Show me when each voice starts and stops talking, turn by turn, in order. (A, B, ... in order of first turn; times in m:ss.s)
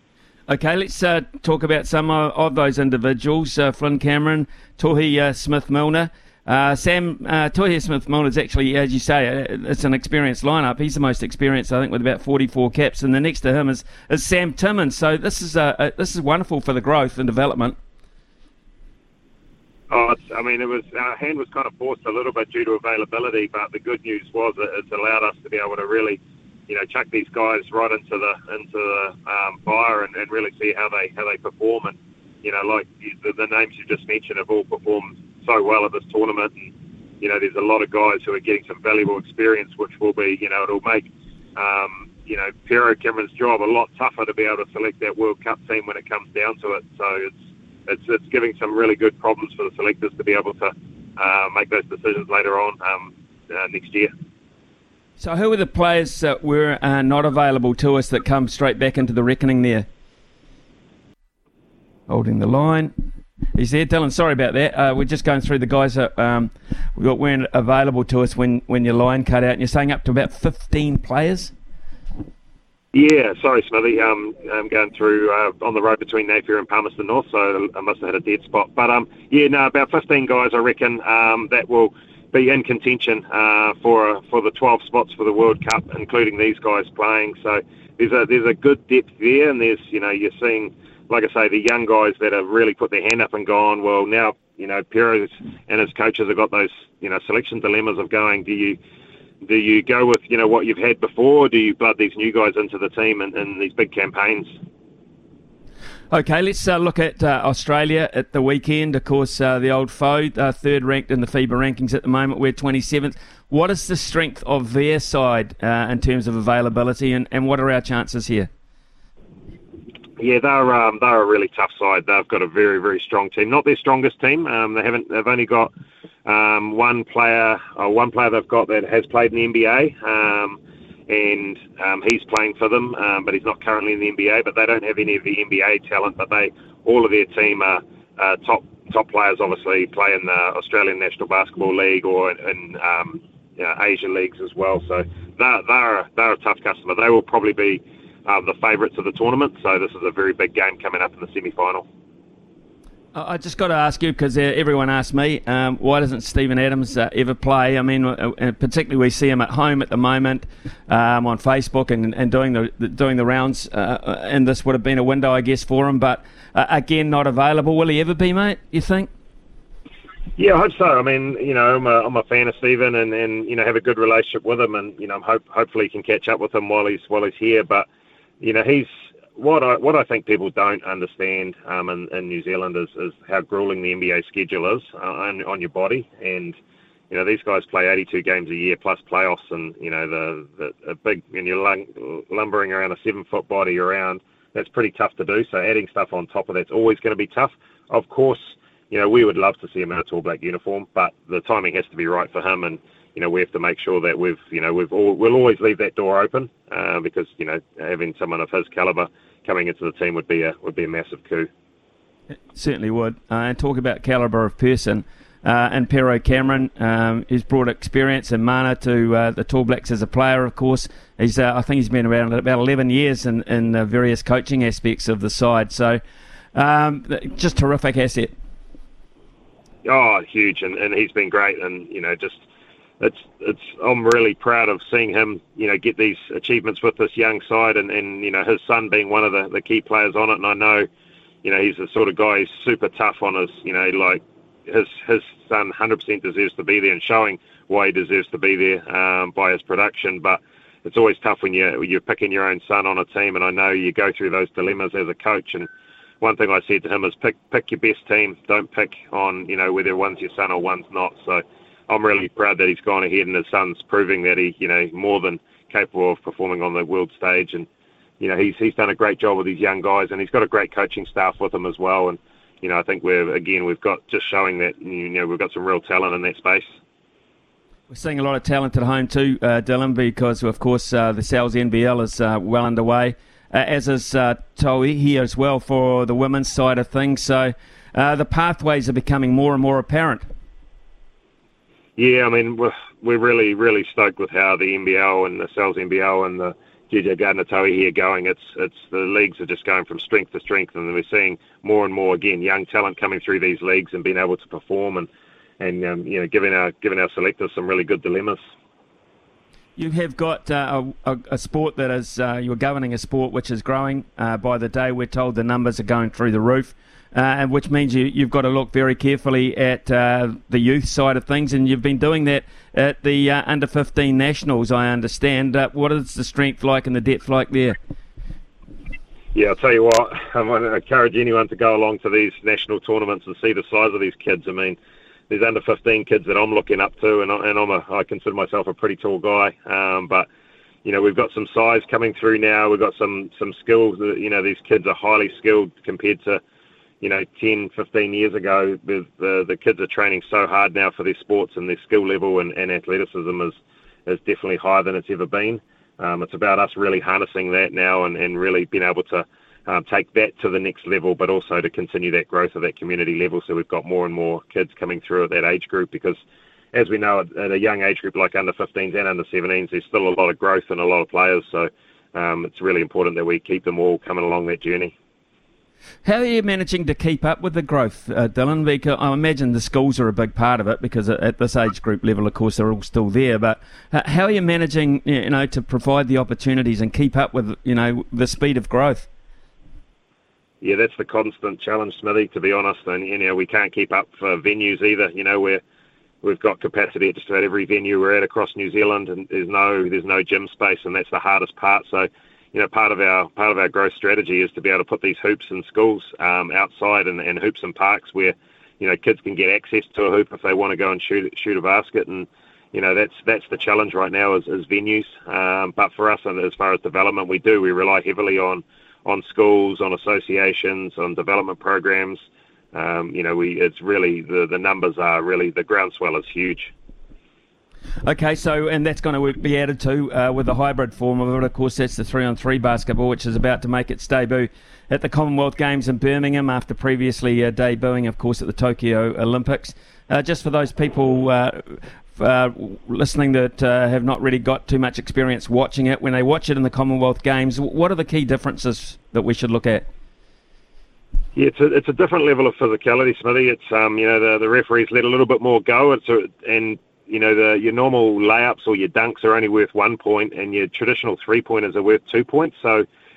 0:00.5-0:17.8 A
0:19.9-0:54.1 B
0:55.2-0:59.9 A
1:02.1-1:02.9 A
1:03.6-1:11.5 A
1:12.9-1:38.8 B
1:39.4-1:44.6 B
1:46.1-1:58.5 A
2:00.2-2:05.7 B
2:06.2-2:31.9 B
2:33.1-2:49.1 A
2:50.4-2:57.9 B
2:58.4-3:06.6 B
3:07.1-3:31.5 B
3:32.5-3:46.0 A
3:46.5-3:48.3 A
3:49.8-3:52.4 B
3:53.0-4:00.9 B
4:01.4-4:15.7 B
4:16.2-4:27.7 B
4:28.2-4:36.8 B
4:37.9-4:50.3 A
4:52.0-5:05.1 B
5:05.6-5:08.4 B
5:09.8-5:27.8 A
5:29.4-5:34.8 B
5:35.3-5:40.3 B
5:40.8-5:46.4 B
5:47.0-6:06.2 B
6:06.7-6:14.9 B
6:16.0-6:29.1 A
6:30.6-6:35.6 B
6:36.2-7:06.7 B
7:08.0-7:29.9 A
7:31.4-7:42.9 B